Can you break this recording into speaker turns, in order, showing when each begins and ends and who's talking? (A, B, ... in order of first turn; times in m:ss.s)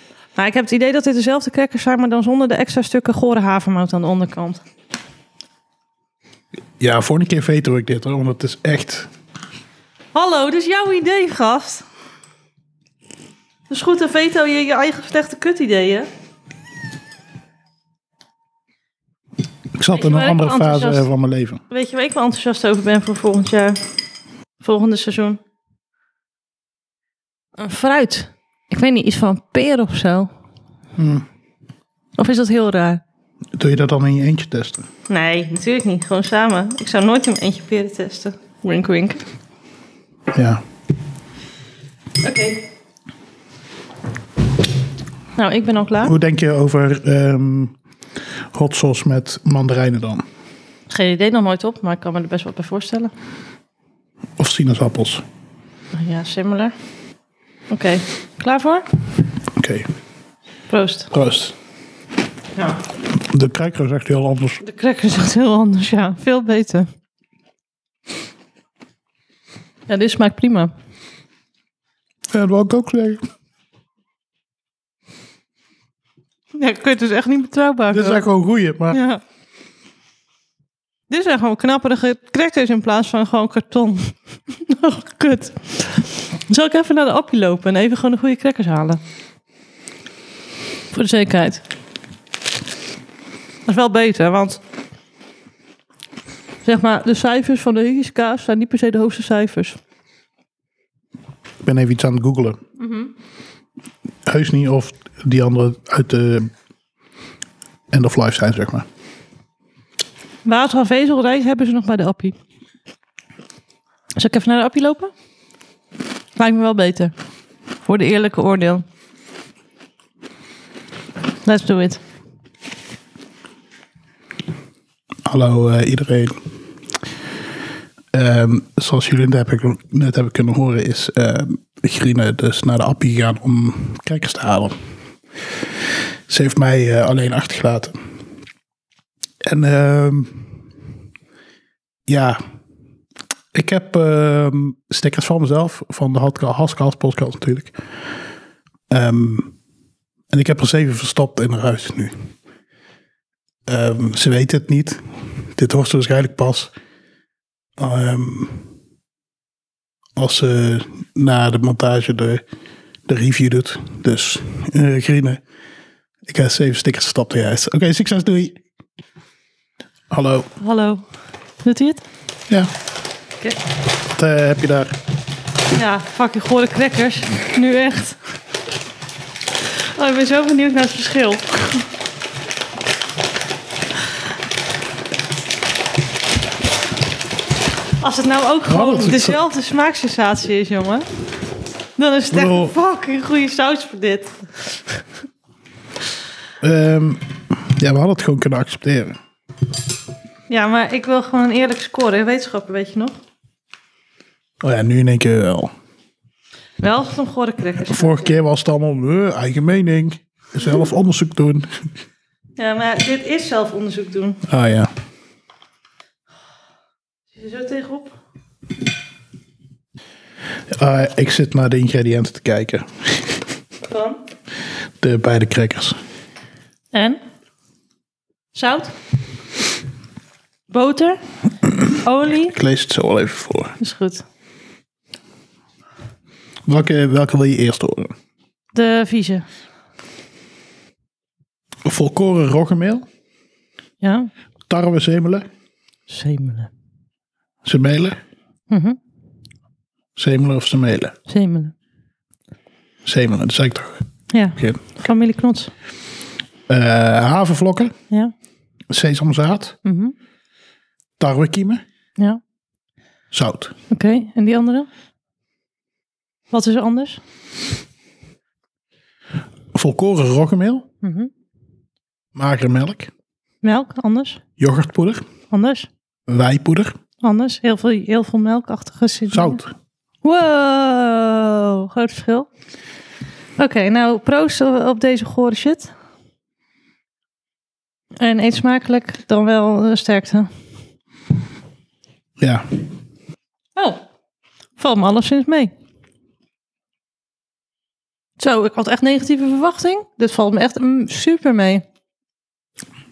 0:00.4-0:04.6 A
0:06.8-0:09.1 B
0:10.1-0:11.8 A
0:13.7-0:16.1 A
0:19.7-0:21.6 B
0:19.9-0:21.0 A
0:21.7-0:23.8 A
0:24.6-0:25.4 A
0:27.6-0:30.3 A
0:31.0-0:31.2 B
0:32.2-0:33.0 A
0:33.5-0:34.8 B
0:35.1-0:39.2 A
0:40.3-0:40.6 B
0:42.2-0:42.6 A
0:45.4-0:46.1 A
0:46.0-0:47.7 B
0:48.5-0:50.2 B
0:50.9-0:53.1 A
0:54.4-0:55.2 B
0:55.9-0:56.7 A
0:57.7-0:58.8 A
0:59.5-0:59.9 B
1:00.7-1:01.1 A
1:01.1-1:01.6 B
1:03.1-1:04.6 B
1:04.6-1:06.9 A
1:09.9-1:10.7 A
1:12.3-1:13.2 B
1:16.5-1:18.2 A
1:17.9-1:19.0 B
1:18.9-1:19.2 A
1:21.1-1:29.0 A
1:30.9-1:31.6 A
1:33.7-1:34.6 A
1:36.6-1:39.8 A
1:41.6-1:42.6 B
1:42.8-1:43.1 A
1:44.2-1:46.5 B
1:47.9-1:48.8 B
1:50.4-1:52.4 A
1:54.2-1:55.1 A
1:56.4-1:57.1 A
1:57.8-1:58.8 A
2:01.4-2:02.0 A
2:05.2-2:06.4 B
2:08.1-2:14.8 B
2:16.3-2:18.0 B
2:19.4-2:20.6 B
2:22.1-2:22.4 B
2:23.5-2:27.8 B
2:28.9-2:29.5 B
2:30.3-2:32.3 B
2:33.7-2:36.7 B
2:37.8-2:38.7 B
2:40.2-2:42.4 B
2:43.1-2:45.4 B
2:46.2-2:48.6 B
2:50.1-2:50.5 B
2:50.6-2:51.0 A
2:51.6-2:52.0 A
2:54.1-2:55.0 B
2:55.7-2:58.2 A
2:59.9-3:01.8 A
3:08.0-3:11.0 A
3:08.7-3:09.4 B
3:12.0-3:14.4 A
3:12.3-3:12.7 B
3:16.6-3:19.2 B
3:20.5-3:23.2 A
3:24.6-3:25.7 B
3:26.8-3:28.3 A
3:27.9-3:31.7 B
3:32.6-3:34.4 A
3:34.5-3:34.9 B
3:37.3-3:38.1 A
3:40.7-3:43.4 B
3:43.8-3:44.2 A
3:45.0-3:46.0 B
3:46.9-3:47.2 A
3:48.5-3:48.9 A
3:50.7-3:51.2 A
3:51.9-3:52.6 A
3:52.4-3:53.7 B
3:53.8-3:54.2 A
3:56.6-3:58.1 B
3:58.7-3:59.4 A
4:01.8-4:03.0 B
4:04.0-4:04.3 A
4:04.7-4:05.5 B
4:06.1-4:06.7 A
4:07.6-4:08.2 B
4:08.7-4:09.0 A
4:10.2-4:11.1 B
4:11.3-4:11.7 A
4:13.0-4:14.0 B
4:14.3-4:15.7 A
4:14.6-4:14.8 B
4:16.7-4:17.9 B
4:18.9-4:19.8 B
4:19.8-4:20.1 A
4:21.2-4:21.8 B
4:23.3-4:23.7 B
4:23.9-4:24.9 A
4:26.5-4:27.2 A
4:29.7-4:30.8 B
4:31.0-4:31.3 A
4:32.3-4:33.1 B
4:33.6-4:34.4 A
4:34.6-4:35.2 B
4:35.5-4:35.9 A
4:36.3-4:36.9 B
4:37.2-4:39.6 A
4:39.3-4:39.7 B
4:40.2-4:42.5 A
4:43.6-4:45.9 A
4:48.2-4:50.5 A
4:52.4-4:52.7 B
4:54.8-4:55.7 A
4:58.4-5:01.8 A